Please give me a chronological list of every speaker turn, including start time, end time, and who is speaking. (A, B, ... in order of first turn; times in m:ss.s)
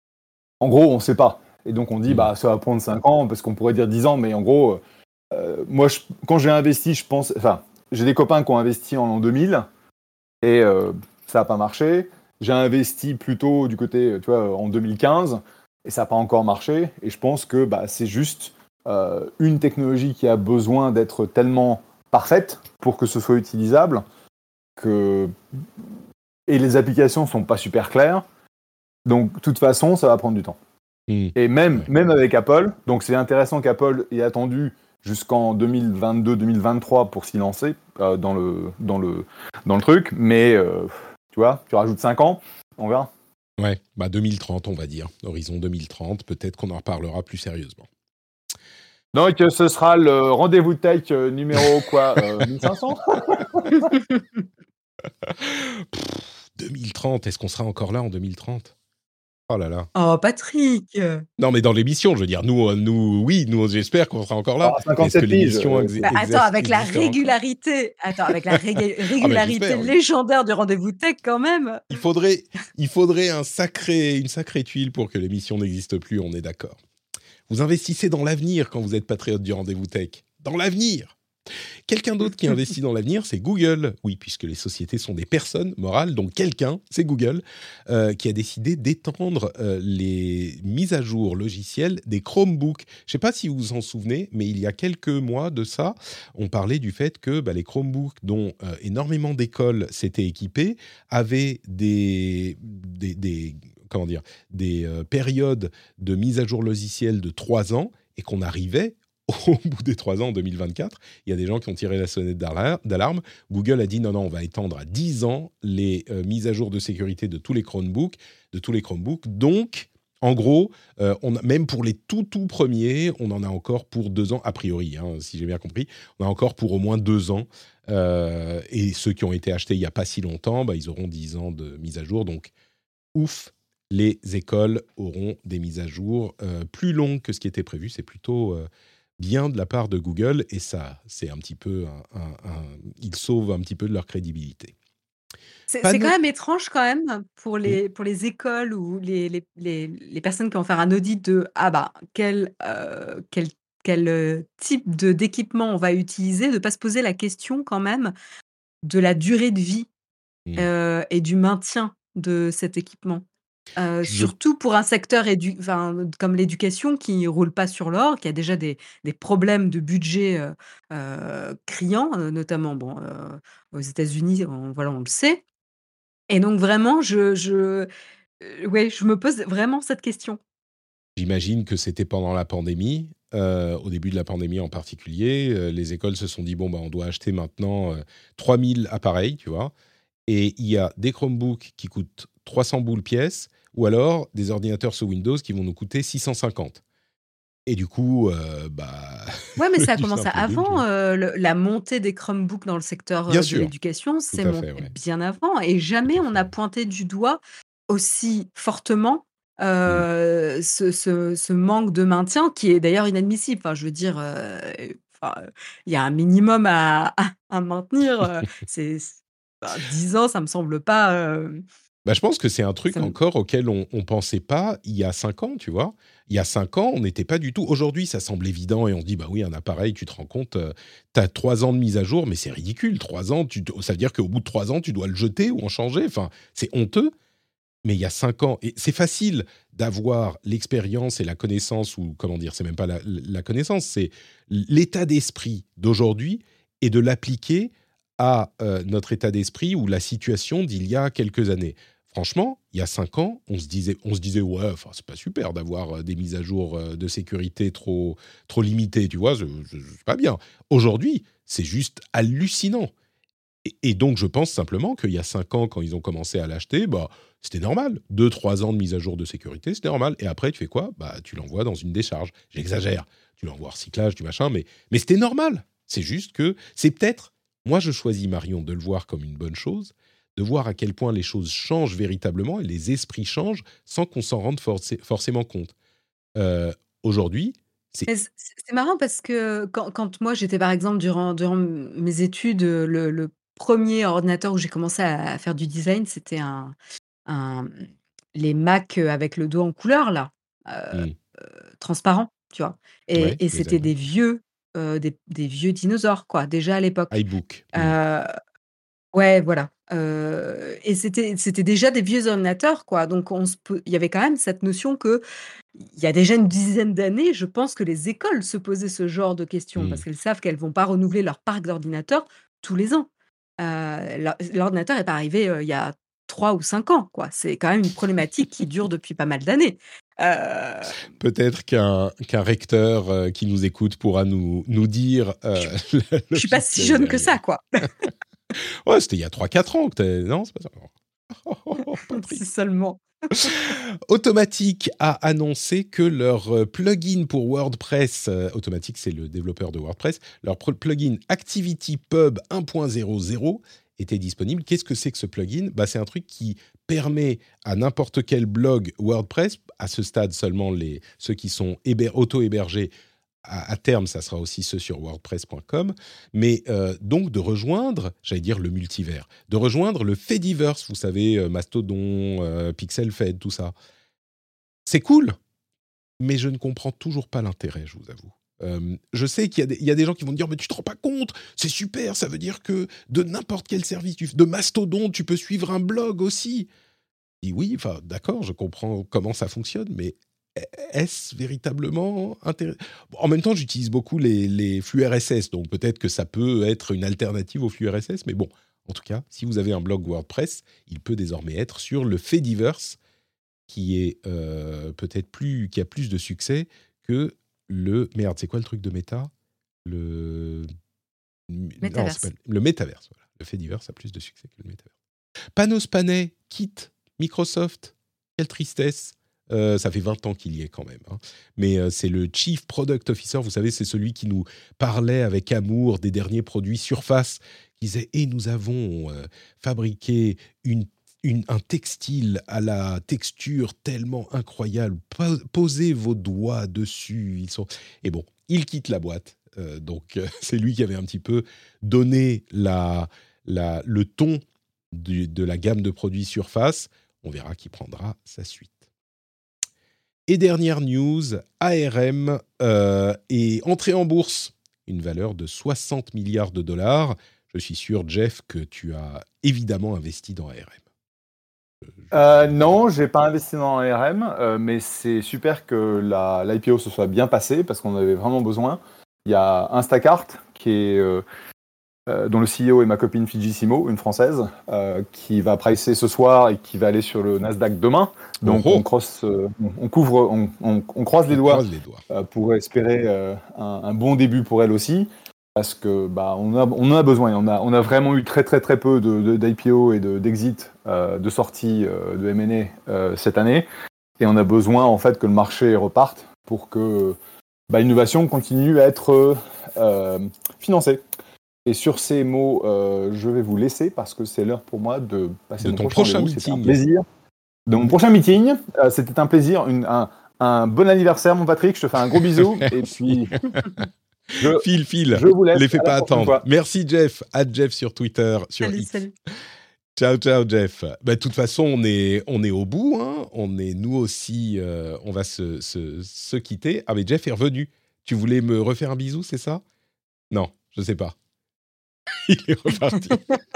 0:00.6-0:04.8 A
0:05.3-0:09.7 A
0:10.4-0:24.0 A
0:24.8-0:25.3 A
0:26.5-0:28.2 A
0:29.0-0:30.6 A
0:31.1-0:31.9 B
0:31.3-0:43.1 A
0:43.6-0:47.9 B
0:49.1-0:53.9 A
0:55.2-0:58.7 B
0:59.5-0:59.9 B
0:59.9-1:01.2 C
1:01.4-1:07.3 B
1:04.6-1:06.0 A
1:06.0-1:11.9 C
1:09.2-1:09.9 B
1:11.9-1:16.8 B
1:17.5-1:21.1 B
1:21.9-2:12.5 B
2:13.1-2:18.7 B
2:19.2-2:24.7 B
2:25.7-2:38.1 C
2:25.8-2:26.1 B
2:38.8-2:39.9 C
2:40.6-2:43.2 C
2:43.8-2:55.4 C
2:44.0-2:44.3 B
2:56.3-2:57.9 C
2:58.4-3:00.4 C
3:01.2-3:09.7 B
3:10.3-3:16.8 B
3:17.7-3:20.8 B
3:19.6-3:41.6 C
3:23.3-3:23.7 B
3:24.3-3:24.9 B
3:42.0-3:57.1 B
3:57.8-4:22.9 B
4:23.6-4:45.7 B
4:46.4-4:48.1 B
4:48.1-4:56.7 C
4:57.3-4:57.8 C
4:58.3-5:01.0 C
5:01.8-5:07.1 C
5:03.2-5:03.9 B
5:07.1-5:08.0 B
5:07.7-5:08.3 C
5:09.1-5:15.2 C
5:15.8-5:30.9 C
5:19.8-5:20.0 B
5:31.2-5:37.4 B
5:36.3-5:37.8 C
5:38.8-5:42.4 B
5:42.1-5:43.5 C
5:43.3-6:02.9 B
6:03.4-6:13.7 B
6:14.8-6:15.4 B
6:16.2-6:26.7 B
6:27.4-6:43.0 B
6:43.7-6:49.3 B
6:49.8-6:50.7 B
6:51.5-6:54.9 B
6:51.8-6:52.2 C
6:55.6-7:28.8 B
7:30.3-7:40.8 B
7:42.1-7:51.2 A
7:52.1-8:13.6 A
7:58.4-7:58.8 B
8:01.3-8:02.0 B
8:14.2-8:17.2 A
8:17.7-8:21.0 A
8:21.6-8:27.0 A
8:25.6-8:26.8 B
8:27.7-8:33.4 A
8:33.1-8:33.8 B
8:34.4-8:36.5 A
8:34.5-8:38.9 B
8:38.6-8:39.1 C
8:40.0-8:49.6 B
8:50.3-8:51.2 B
8:52.2-8:53.3 B
8:53.0-8:53.3 C